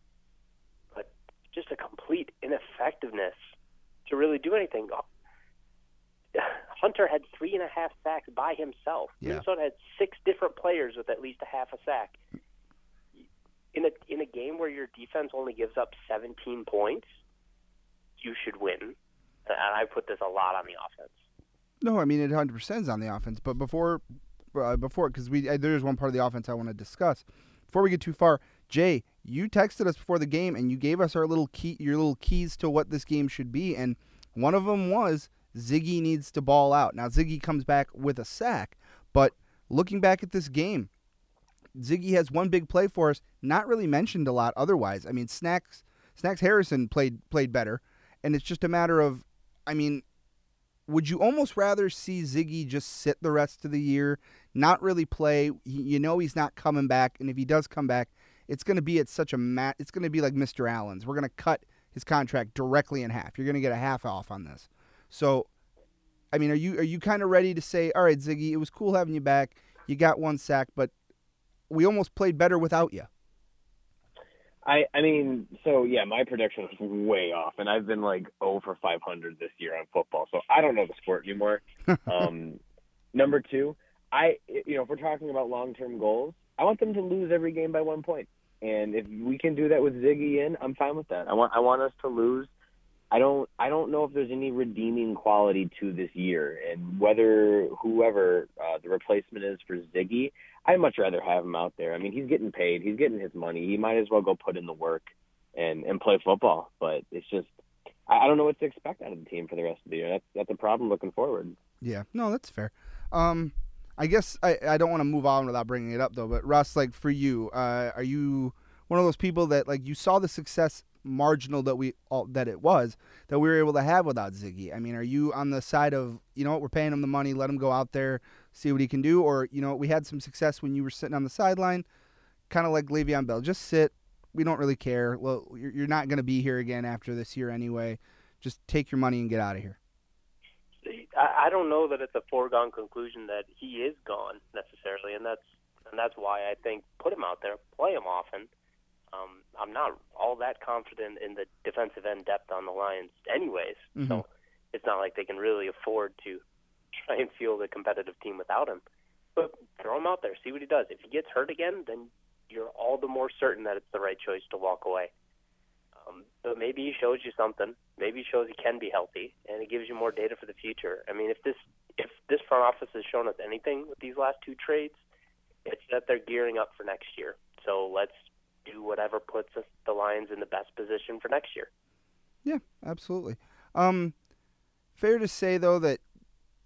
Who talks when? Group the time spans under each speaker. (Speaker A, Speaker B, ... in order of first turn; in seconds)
Speaker A: 0.9-3.4, 4.0-5.0, 6.3-12.2, 13.7-17.1, 18.2-21.2, 140.8-148.5, 149.1-156.4, 156.9-158.8, 159.3-165.1, 166.1-175.0, 175.6-181.7
Speaker B: 21.8-24.0, 24.5-40.9, 41.7-50.0, 50.9-65.5, 66.3-70.9, 71.7-73.1, 111.8-131.8, 132.5-139.8, 153.9-154.2, 182.4-184.1, 185.0-186.0
Speaker C: 74.6-82.6, 83.1-92.5, 93.1-107.5, 108.1-111.5